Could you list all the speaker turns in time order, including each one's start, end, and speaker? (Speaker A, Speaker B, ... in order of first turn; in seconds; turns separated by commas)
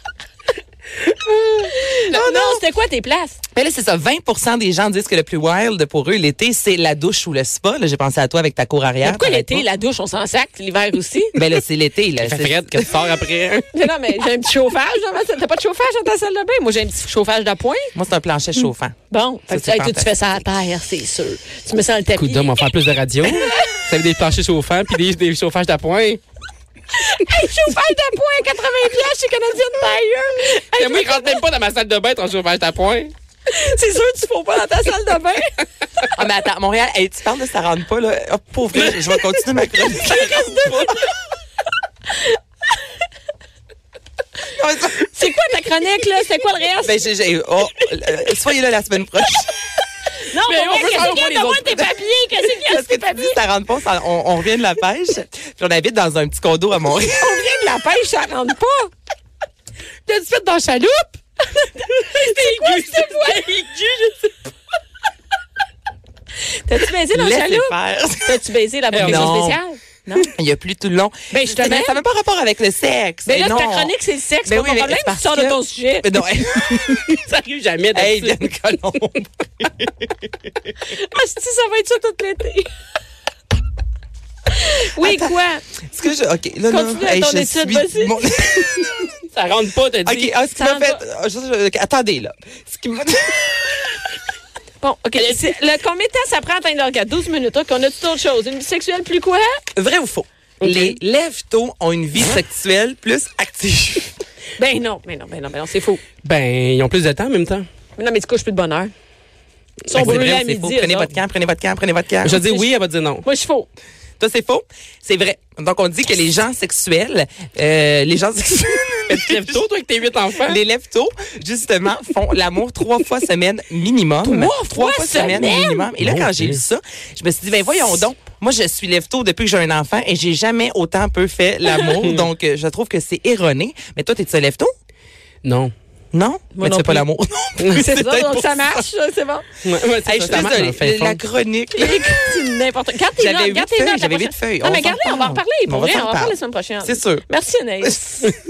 Speaker A: 1.3-1.6, Speaker B: 1.5-3.4, Speaker C: 2.1-2.6, Speaker C: 3.5-9.6, Speaker B: 9.0-11.4, Speaker C: 11.3-12.9, Speaker A: 12.2-13.7, Speaker B: 13.7-17.9, Speaker C: 17.9-18.9, Speaker B: 19.1-22.6, Speaker C: 19.5-20.1, Speaker A: 22.2-26.2, Speaker B: 23.2-23.8, Speaker B: 26.9-31.4, Speaker A: 30.7-33.1, Speaker B: 33.5-35.6, Speaker C: 36.1-40.8, Speaker A: 38.8-39.3, Speaker B: 40.0-41.0, Speaker A: 40.0-40.9, Speaker C: 44.5-45.0, Speaker B: 45.1-47.0, Speaker C: 46.8-49.5, Speaker B: 50.3-53.4, Speaker A: 50.5-51.9, Speaker C: 52.6-57.4, Speaker B: 57.1-58.9, Speaker A: 60.1-61.1, Speaker B: 61.5-63.6, Speaker A: 62.4-64.2, Speaker B: 66.7-70.3, Speaker C: 67.1-68.4, Speaker A: 68.9-69.5, Speaker C: 69.0-69.6, Speaker C: 70.2-73.9, Speaker B: 71.3-72.0, Speaker B: 73.2-76.1, Speaker C: 74.4-77.1, Speaker A: 76.6-78.5, Speaker C: 77.9-80.3, Speaker B: 80.8-82.7, Speaker B: 84.5-85.6, Speaker C: 85.0-85.3, Speaker C: 85.9-89.1, Speaker B: 86.7-88.2, Speaker A: 89.3-90.3, Speaker C: 90.0-93.8, Speaker B: 90.3-91.0, Speaker B: 94.8-99.6, Speaker C: 99.8-104.2, Speaker A: 100.6-101.0, Speaker B: 104.6-106.0, Speaker A: 106.2-107.7, Speaker B: 108.0-108.9, Speaker B: 109.9-111.1, Speaker A: 109.9-110.5, Speaker C: 109.9-112.4, Speaker A: 112.2-113.2, Speaker B: 112.3-112.7, Speaker B: 113.2-113.7, Speaker C: 114.2-119.6, Speaker A: 119.1-120.6, Speaker C: 120.4-134.7, Speaker B: 124.2-125.9, Speaker A: 126.0-126.6, Speaker A: 131.8-132.3, Speaker A: 135.4-135.7, Speaker C: 136.1-138.8, Speaker B: 136.5-137.1, Speaker A: 137.6-137.8, Speaker B: 137.7-139.5, Speaker A: 139.6-141.2, Speaker C: 140.1-142.2, Speaker B: 141.7-148.3, Speaker C: 143.2-147.2